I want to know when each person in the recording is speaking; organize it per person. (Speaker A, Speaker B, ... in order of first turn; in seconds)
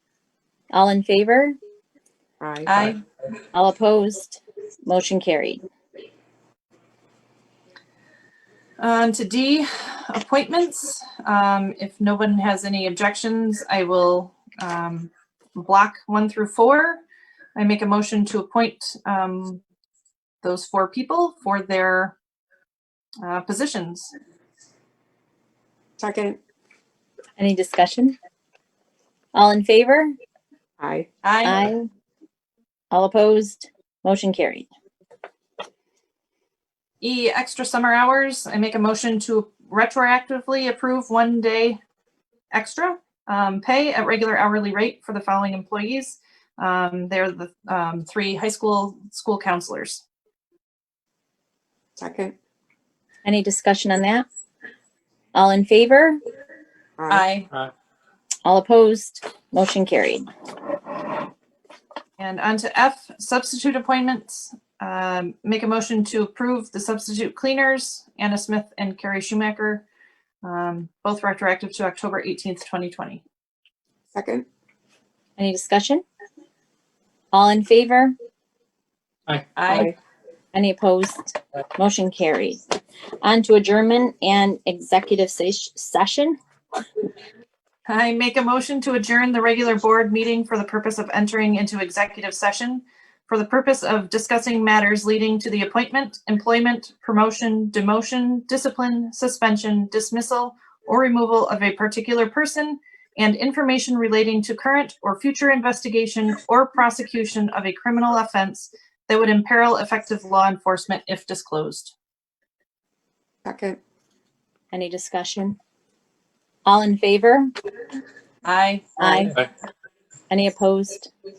Speaker A: 0.7-1.5, 3.5-5.6, 27.4-28.1, 29.3-30.1, 31.4-31.9, 32.9-34.7, 53.2-54.2, 55.3-56.2, 58.4-60.2, 75.4-76.0, 77.3-78.1, 80.5-82.6, 83.2-86.4, 114.7-115.5, 116.7-117.5, 119.0-119.3, 120.3-121.1
Speaker B: 2.4-2.9, 26.0-26.4, 30.8-31.1, 52.0-52.3, 57.0-57.2, 74.1-74.5, 113.4-113.8
Speaker C: 2.6-3.0, 8.8-17.0, 17.6-19.6, 20.4-22.1, 23.2-24.1, 31.2-31.7, 37.0-41.8, 42.5-50.0, 57.1-57.5, 62.2-69.8, 70.4-73.2, 79.5-79.9, 87.9-111.9, 118.4-119.3